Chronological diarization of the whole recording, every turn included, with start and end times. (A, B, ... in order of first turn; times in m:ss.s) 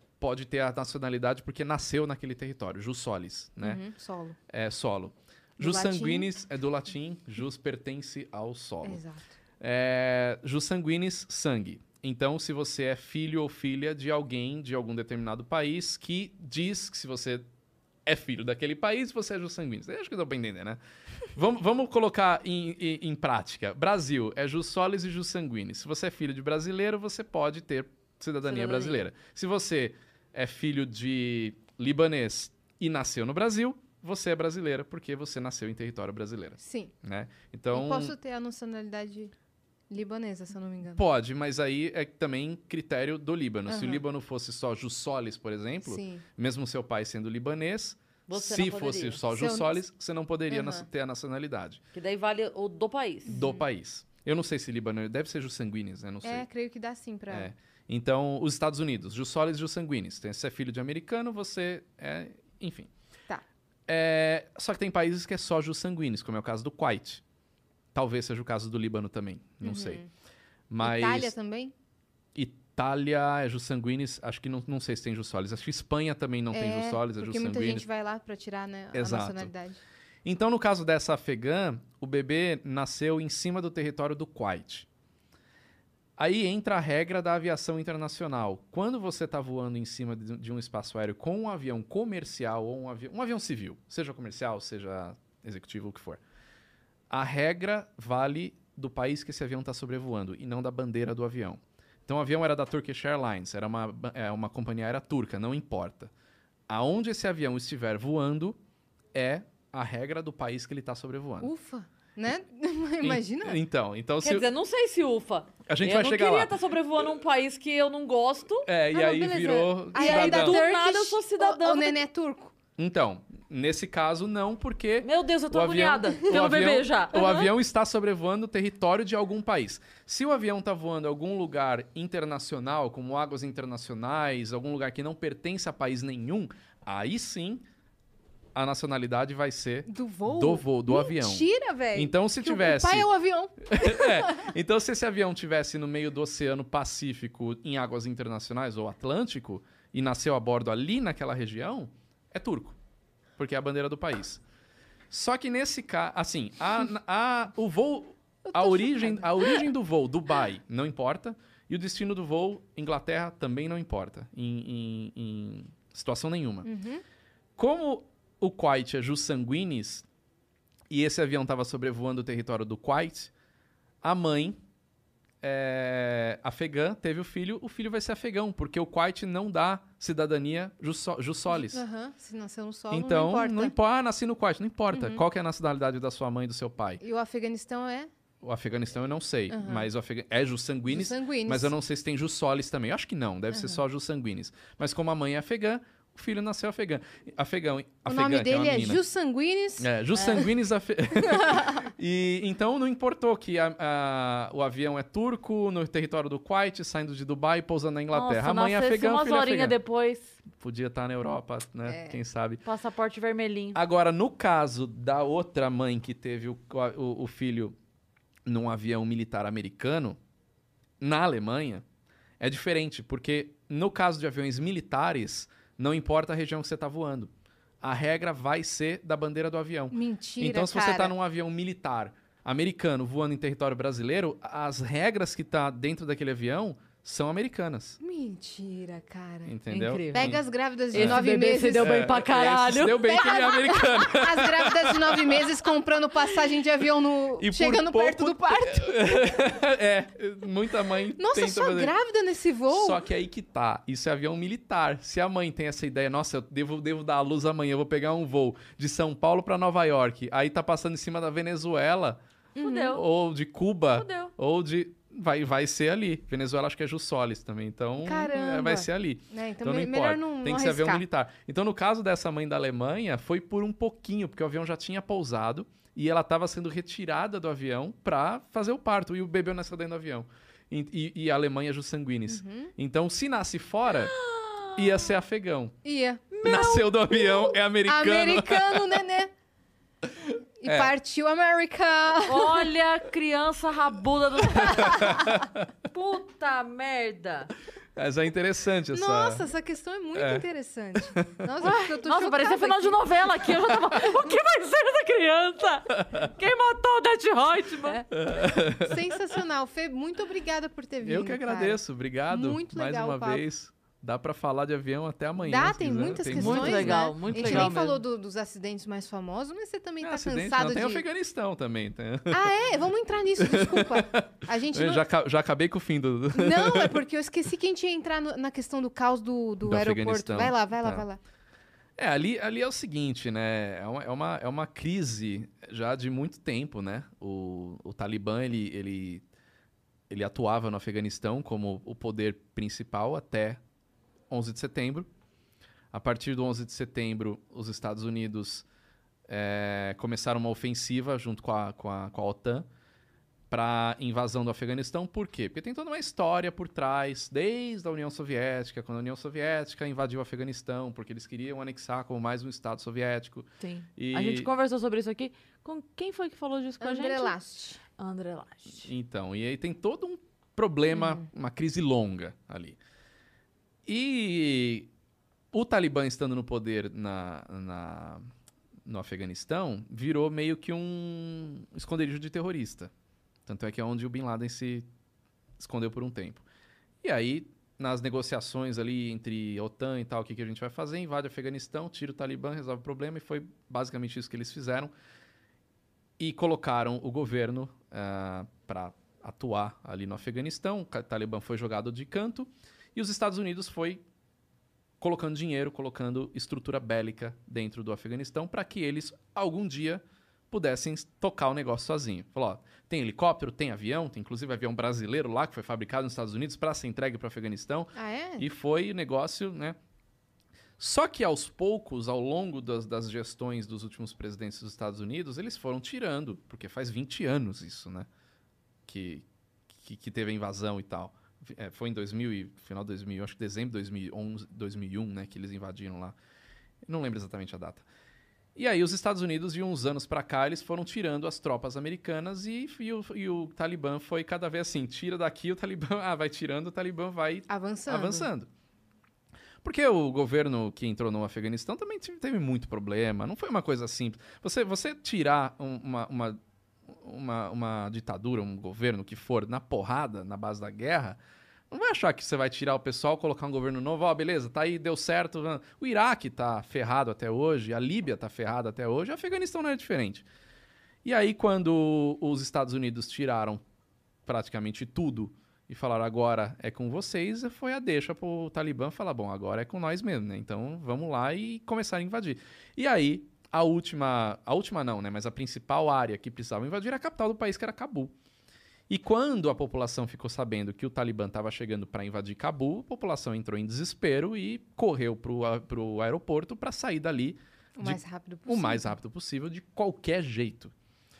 0:00.2-0:03.8 A
0:03.6-0:04.4 B
0:04.5-0:09.0 A
0:05.6-0:06.3 B
0:08.8-0:09.3 B
0:09.6-0:17.4 A
0:18.0-0:20.8 A
0:21.3-0:38.2 A
0:28.4-0:29.0 C
0:36.6-0:36.9 B
0:37.7-0:39.3 B
0:39.9-0:41.0 B
0:40.9-0:51.8 A
0:43.7-0:44.0 B
0:45.8-0:46.2 B
0:48.3-0:49.2 C
0:49.3-0:49.8 B
0:50.5-0:50.8 B
0:51.9-0:53.4 C
0:53.3-0:53.6 B
0:53.3-0:56.5 A
0:56.2-0:57.5 B
0:57.3-1:02.9 A
1:03.9-1:07.2 A
1:07.9-1:10.0 A
1:09.6-1:10.1 B
1:10.7-1:11.3 A
1:10.8-1:11.7 B
1:12.3-1:17.8 A
1:16.5-1:19.8 B
1:18.9-1:19.5 A
1:20.2-1:24.9 A
1:26.2-1:36.2 A
1:37.1-1:46.1 A
1:46.7-1:48.6 A
1:49.1-1:51.5 A
1:51.4-1:53.6 B
1:53.0-1:54.5 A
1:54.2-1:58.7 C
1:55.7-1:56.6 A
1:58.6-2:00.6 A
1:58.9-2:02.5 B
1:59.5-2:02.0 C
2:02.8-2:17.6 A
2:05.0-2:07.5 C
2:18.5-2:23.1 A
2:19.9-2:24.4 B
2:23.6-2:32.8 A
2:33.4-2:34.4 A
2:35.1-2:46.7 A
2:38.5-2:39.6 B
2:46.6-2:47.0 B
2:47.6-2:50.0 A
2:50.9-2:53.3 A
2:54.0-2:54.6 A
2:55.4-3:01.8 A
3:01.5-3:03.7 B
3:02.9-3:07.0 A
3:04.9-3:05.2 B
3:07.0-3:08.1 B
3:08.4-3:19.0 A
3:09.5-3:09.9 B
3:10.9-3:11.7 B
3:13.5-3:13.8 B
3:18.0-3:19.9 B
3:19.8-3:29.8 A
3:20.2-3:20.4 C
3:21.2-3:21.8 B
3:28.1-3:30.4 C
3:30.5-3:32.6 A
3:31.8-3:32.2 B
3:32.6-3:33.8 C
3:33.7-3:37.8 A
3:38.4-3:40.2 A
3:41.0-3:41.8 A
3:42.4-3:47.3 A
3:47.8-3:58.0 A
3:49.9-3:51.1 B
3:58.0-3:59.6 B
3:59.4-4:00.4 A
3:59.7-4:00.4 C
4:00.1-4:02.1 B
4:00.9-4:03.4 C
4:00.9-4:01.2 A
4:01.8-4:05.6 A
4:03.0-4:09.0 B
4:07.4-4:11.9 A
4:11.2-4:13.0 B
4:12.7-4:22.2 A
4:22.5-4:23.0 C
4:22.6-4:22.9 B
4:22.8-4:44.1 A
4:23.9-4:24.3 C
4:28.0-4:31.0 B
4:42.3-4:42.7 B
4:43.9-4:45.1 C
4:44.7-4:45.7 A
4:45.8-4:46.2 B
4:46.3-4:46.9 C
4:46.4-4:49.0 A
4:47.8-4:49.3 B
4:50.2-4:50.9 A
4:50.6-4:52.7 B
4:52.2-4:55.1 C
4:54.6-4:55.7 A
4:55.9-4:57.5 C
4:58.0-4:59.5 A
4:58.9-5:03.0 B
5:00.1-5:01.3 A
5:01.6-5:08.0 C
5:08.1-5:09.0 A
5:08.8-5:11.8 B
5:11.0-5:17.9 A
5:12.3-5:13.4 B
5:15.4-5:21.0 B
5:16.3-5:18.0 C
5:20.0-5:22.6 A
5:22.3-5:25.0 B
5:23.4-5:27.0 A
5:26.3-5:31.2 B
5:29.6-5:31.0 A
5:32.0-5:39.2 A
5:40.1-5:43.6 A
5:44.3-5:45.1 A
5:45.9-5:48.6 A
5:49.3-5:52.7 A
5:53.5-6:04.5 A
6:03.6-6:07.3 C
6:06.8-6:07.8 B
6:08.0-6:08.9 C
6:08.8-6:12.8 A
6:10.9-6:11.2 B
6:13.8-6:14.9 A
6:15.5-6:18.3 A
6:18.8-6:22.9 A
6:23.4-6:24.9 A
6:25.6-6:26.4 A
6:27.0-6:34.9 A
6:36.2-6:44.0 A
6:45.0-6:59.8 A
6:57.9-6:58.4 B
7:00.8-7:08.1 A
7:08.8-7:16.2 A
7:16.8-7:17.8 A
7:18.5-7:28.5 A
7:27.5-7:28.3 B
7:29.6-7:41.2 A
7:41.7-7:50.2 A
7:51.0-7:53.6 A
7:54.2-8:08.1 A
8:08.9-8:20.7 A
8:17.8-8:18.9 B